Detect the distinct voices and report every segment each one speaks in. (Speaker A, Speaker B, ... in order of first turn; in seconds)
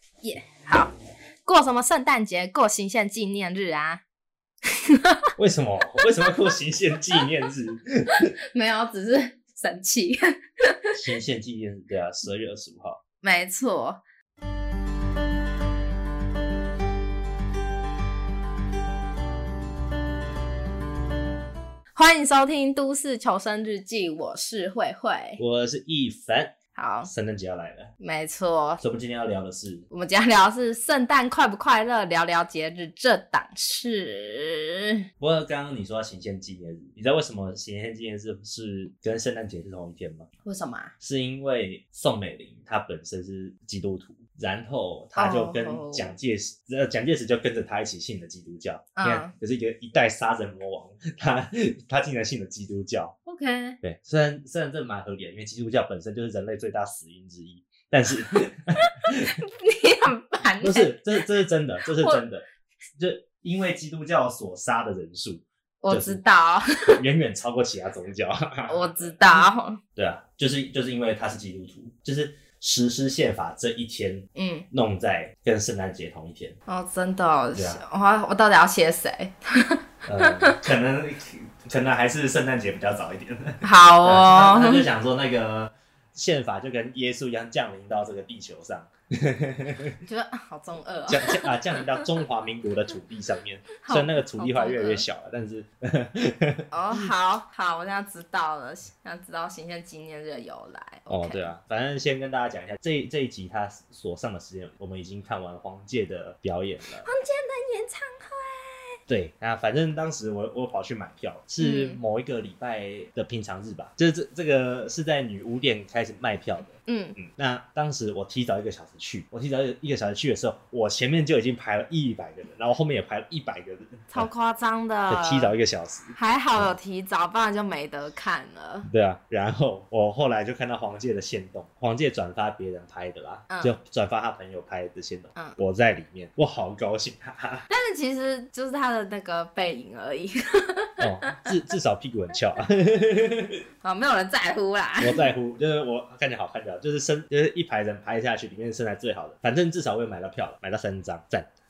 Speaker A: 0.2-0.9, 1.4-4.0, 4.6-5.3, 6.0-6.3, 8.1-10.9, 13.2-14.0, 21.9-25.4, 26.7-27.1, 28.0-28.8, 29.9-35.0, 40.4-40.9, 45.1-46.1, 49.0-49.3, 53.2-53.8, 59.0-61.2, 61.9-62.2, 65.8-67.0, 68.7-69.8, 74.3-74.7, 76.7-80.6, 83.6-84.8, 90.0-92.0, 93.8-95.0, 96.7-101.5, 107.0-108.9, 111.6-112.0, 116.7-117.2, 124.1-125.5, 126.1-128.9, 133.5-133.8, 137.7-141.5, 143.8-145.3
Speaker B: 5.4-8.3, 10.9-13.0, 25.4-27.9, 28.8-29.9, 35.2-40.3, 41.0-53.1, 53.8-59.4, 60.6-62.4, 63.0-66.2, 66.9-69.4, 70.0-76.6, 77.5-77.8, 80.0-90.0, 91.1-96.7, 101.1-107.1, 109.1-124.3, 125.1-126.8, 128.8-137.7, 141.0-143.6, 145.0-151.5